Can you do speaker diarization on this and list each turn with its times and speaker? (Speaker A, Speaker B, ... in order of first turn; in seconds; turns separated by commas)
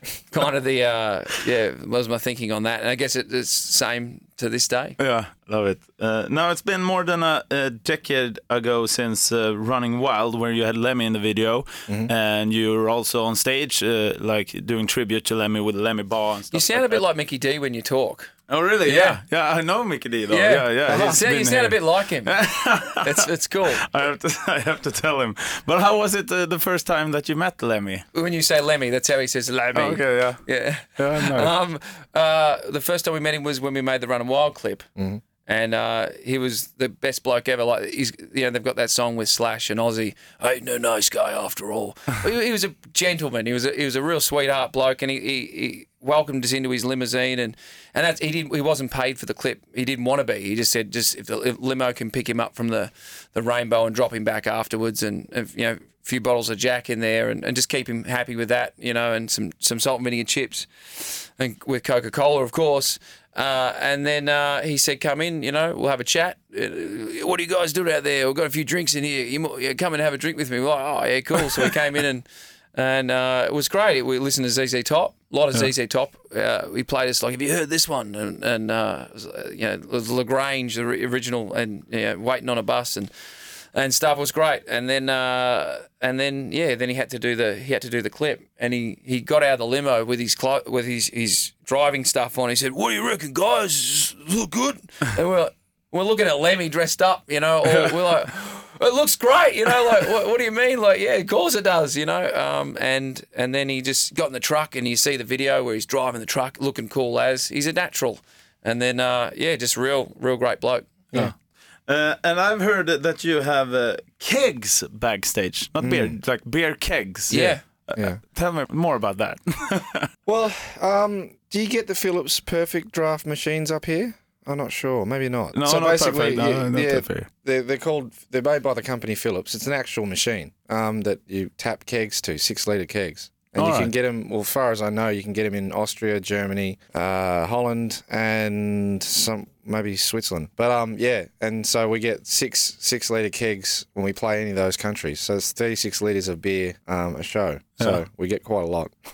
Speaker A: 0.3-5.0, Speaker B: 5.0-17.0, Speaker A: 16.5-18.3, Speaker B: 18.5-28.0, Speaker A: 18.8-19.2, Speaker A: 20.3-22.4, Speaker C: 20.9-21.2, Speaker A: 23.0-23.8, Speaker A: 28.1-34.9, Speaker B: 29.7-30.4, Speaker B: 31.0-31.5, Speaker C: 35.0-35.2, Speaker A: 35.5-83.1, Speaker A: 83.7-111.0, Speaker B: 111.9-120.1, Speaker C: 115.8-116.2, Speaker A: 117.3-117.6, Speaker C: 117.3-118.2, Speaker C: 120.2-148.9, Speaker B: 125.5-127.3, Speaker B: 133.6-133.9